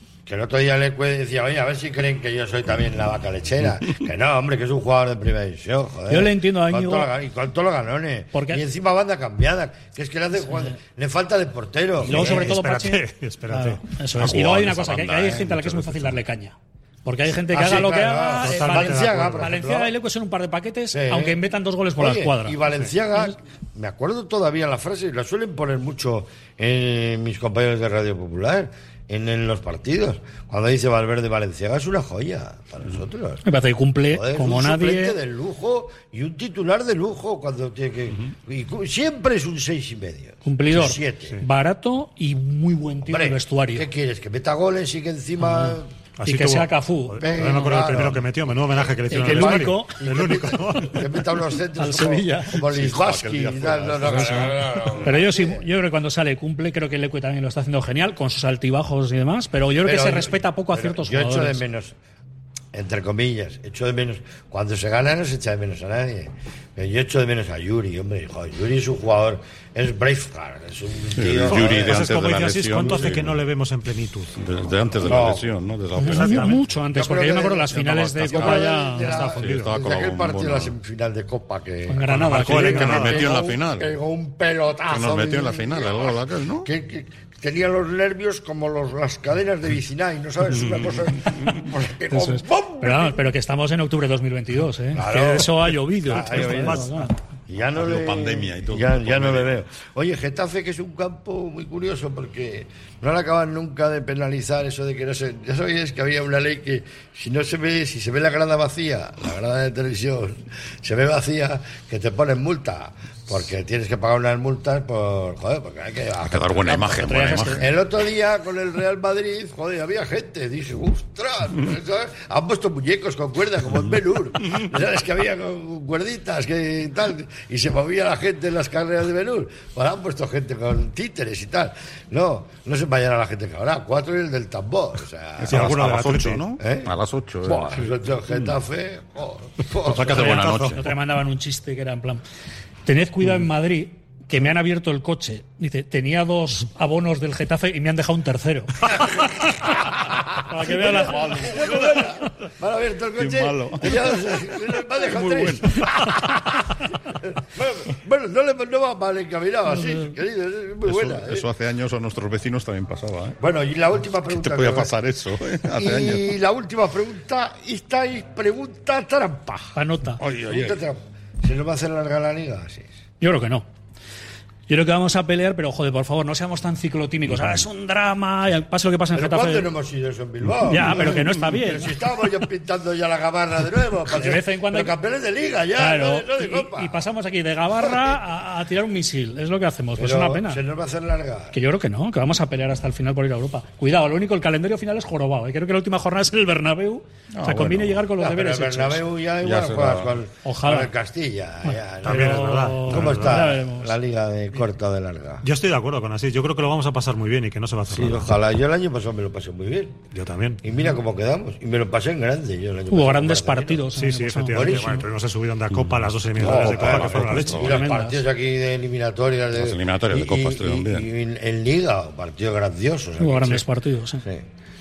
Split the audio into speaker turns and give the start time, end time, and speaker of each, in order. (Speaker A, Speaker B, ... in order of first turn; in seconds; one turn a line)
Speaker A: 0.2-12.5
Speaker B: 6.1-7.1
Speaker B: 8.3-8.6
Speaker B: 10.4-10.8
Speaker C: 12.0-13.8
Speaker B: 12.0-22.6
Speaker D: 14.1-16.2
Speaker A: 17.5-19.9
Speaker C: 18.4-19.5
Speaker A: 20.9-21.4
Speaker A: 22.0-33.4
Speaker B: 33.4-35.2
Speaker A: 34.1-41.4
Speaker B: 40.4-43.9
Speaker A: 43.0-45.9
Speaker B: 45.4-48.1
Speaker C: 46.2-51.2
Speaker A: 47.2-55.6
Speaker B: 49.1-50.3
Speaker B: 51.8-52.6
Speaker D: 52.6-55.1
Speaker B: 55.0-61.6
Speaker A: 59.8-61.9
Speaker A: 62.7-72.1
Speaker D: 71.2-73.4
Speaker C: 71.4-74.7
Speaker A: 72.8-73.2
Speaker D: 74.4-76.6
Speaker A: 75.0-75.5
Speaker B: 76.0-79.4
Speaker C: 76.0-76.6
Speaker A: 76.9-93.2
Speaker D: 77.6-80.8
Speaker C: 79.0-79.7
Speaker B: 81.9-83.2
Speaker C: 82.1-83.3
Speaker D: 82.2-83.9
Speaker D: 84.9-86.7
Speaker D: 90.5-91.4
Speaker B: 92.1-97.2
Speaker A: 94.9-135.7
Speaker C: 96.1-96.8
Speaker D: 97.7-99.6
Speaker D: 116.2-117.7
Speaker B: 116.7-117.6
Speaker D: 135.4-137.9
Speaker C: 135.5-136.4
Speaker A: 136.6-140.2
Speaker C: 139.8-140.8
Speaker D: 139.9-140.9
Speaker B: 140.1-142.2
Speaker B: 142.8-149.1
Speaker A: 150.1-161.4
Speaker B: 150.5-151.4
Speaker D: 150.6-152.2
Speaker D: 153.2-156.6
Speaker D: 160.8-163.4
Speaker A: 163.4-164.9
Speaker D: 164.3-166.4
Speaker A: 165.7-169.8
Speaker B: 169.7-170.2
Speaker D: 170.2-170.8
Speaker A: 170.3-172.9
Speaker B: 173.2-173.7
Speaker B: 174.7-179.7
Speaker A: 179.1-187.0
Speaker B: 180.7-181.9
Speaker D: 180.8-181.2
Speaker B: 184.1-184.9
Speaker B: 185.8-190.6
Speaker A: 189.9-191.5
Speaker B: 191.5-199.0
Speaker D: 197.3-198.1
Speaker A: 198.2-205.4
Speaker D: 199.4-200.2
Speaker B: 200.4-200.9
Speaker B: 201.6-204.0
Speaker C: 202.0-203.5
Speaker C: 205.4-208.3
Speaker A: 207.9-210.0
Speaker C: 210.1-210.6
Speaker A: 210.6-213.9
Speaker B: 212.9-215.1
Speaker C: 213.9-217.8
Speaker A: 214.5-215.1
Speaker D: 215.7-217.9
Speaker A: 216.3-223.6
Speaker B: 217.5-218.2
Speaker D: 219.5-221.1
Speaker B: 223.2-224.2